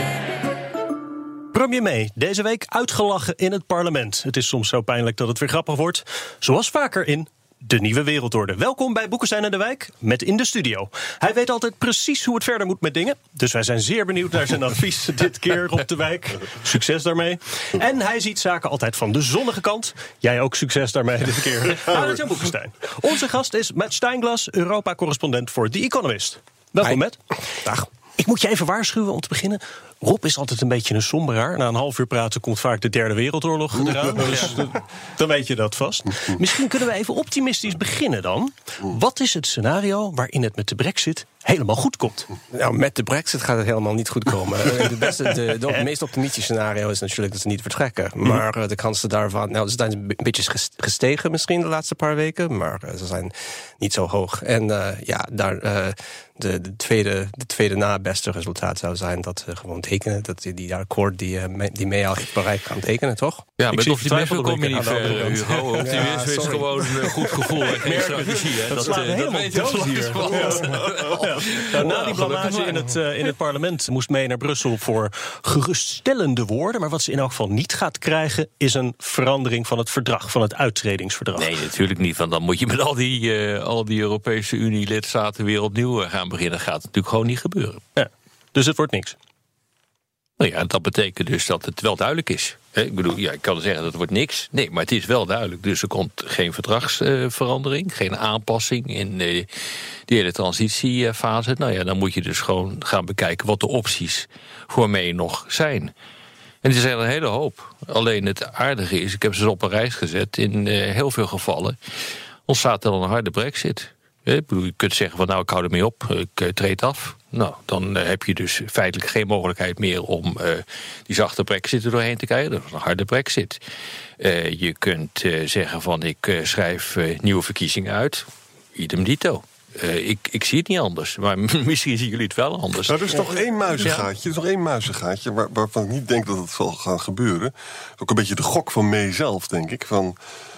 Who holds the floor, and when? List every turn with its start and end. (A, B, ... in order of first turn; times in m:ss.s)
0:01.5-0:27.2 A
0:26.8-0:27.9 B
0:28.2-0:42.3 A
0:34.2-0:34.7 C
0:42.5-1:03.5 B
1:03.6-1:12.9 D
1:03.7-1:06.0 A
1:05.8-1:07.5 B
1:07.7-1:21.5 A
1:21.4-1:27.8 D
1:28.0-1:29.2 A
1:30.4-1:39.5 D
1:40.1-1:45.9 D
1:46.6-1:51.8 D
1:52.5-2:03.6 D
2:04.2-2:13.0 D
2:12.9-2:20.2 C
2:13.1-2:13.8 B